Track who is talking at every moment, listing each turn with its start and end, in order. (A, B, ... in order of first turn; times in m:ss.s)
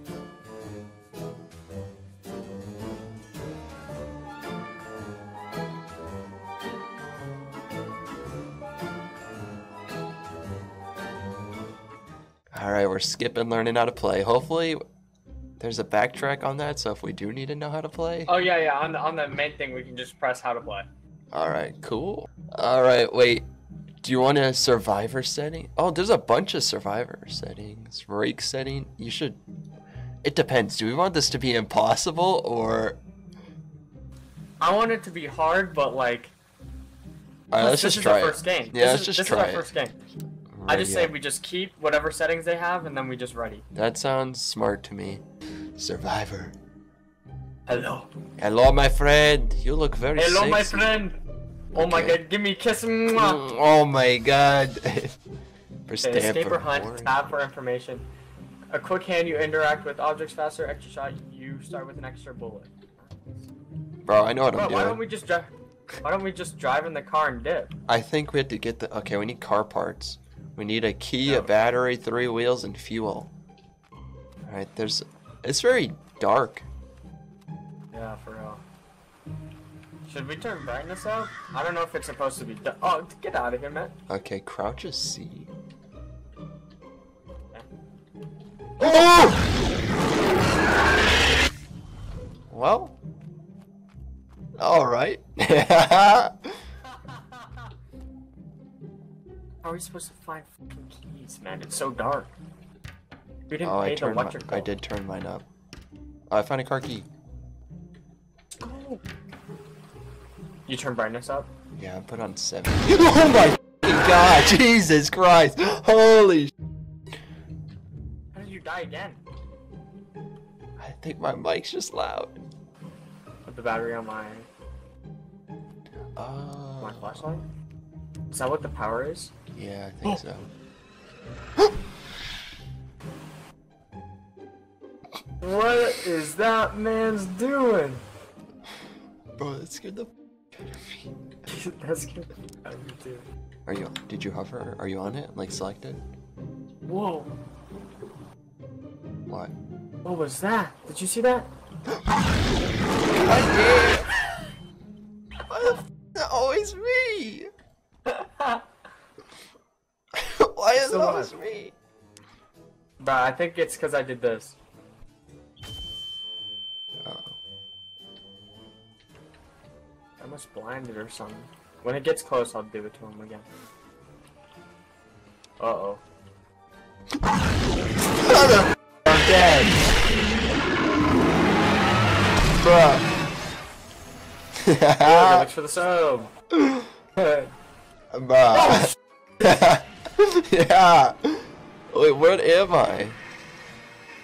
0:12.5-0:14.8 A
0:15.6-0:18.4 A
0:18.3-0:20.9 B
0:21.3-0:23.4 A
0:24.0-0:29.4 A
0:30.2-0:33.0 A
0:34.6-0:36.3 B
0:37.5-0:39.6 A
0:37.6-0:40.0 B
0:40.5-0:41.1 A
0:40.7-0:43.6 B
0:43.7-0:45.2 A
0:45.8-0:46.5 A
0:47.7-0:48.1 B
0:48.4-0:50.9 A
0:50.2-0:51.2 B
0:51.7-0:52.2 A
0:51.7-0:53.4 B
0:53.1-0:55.2 A
0:55.9-0:57.1 A
0:56.0-0:58.0 B
0:58.7-1:03.5 B
1:04.0-1:05.0 A
1:04.5-1:05.5 B
1:06.0-1:07.7 B
1:07.9-1:13.3 A
1:11.2-1:11.5 B
1:14.5-1:16.6 A
1:17.9-1:18.6 B
1:20.0-1:23.9 B
1:24.1-1:25.5 A
1:28.8-1:29.1 B
1:28.8-1:29.4 A
1:32.5-1:32.9 A
1:34.6-1:36.5 A
1:39.6-1:42.3 B
1:43.5-1:44.7 B
1:43.6-1:45.4 A
1:46.3-1:47.1 A
1:48.5-1:49.0 B
1:50.7-1:51.5 B
1:51.7-1:56.5 A
1:58.3-1:59.2 B
2:00.8-2:02.4 A
2:03.4-2:04.5 B
2:06.0-2:07.3 A
2:06.8-2:07.4 B
2:08.3-2:09.3 B
2:09.5-2:10.5 A
2:15.4-2:18.0 B
2:19.4-2:20.1 A
2:21.5-2:23.2 B
2:23.6-2:26.0 A
2:26.8-2:27.3 B
2:29.3-2:29.5 A
2:30.0-2:31.5 B
2:33.1-2:34.1 A
2:35.5-2:37.5 A
2:38.0-2:38.6 B
2:40.2-2:41.7 A
2:40.7-2:41.3 B
2:43.0-2:44.6 B
2:47.0-2:47.3 A
2:50.2-2:53.4 B
2:55.6-2:56.0 B
2:58.2-2:59.8 A
3:02.6-3:03.0 A
3:04.6-3:05.5 A
3:05.0-3:06.3 B
3:06.5-3:06.9 A
3:07.2-3:07.5 B
3:08.1-3:13.2 A
3:08.5-3:08.8 B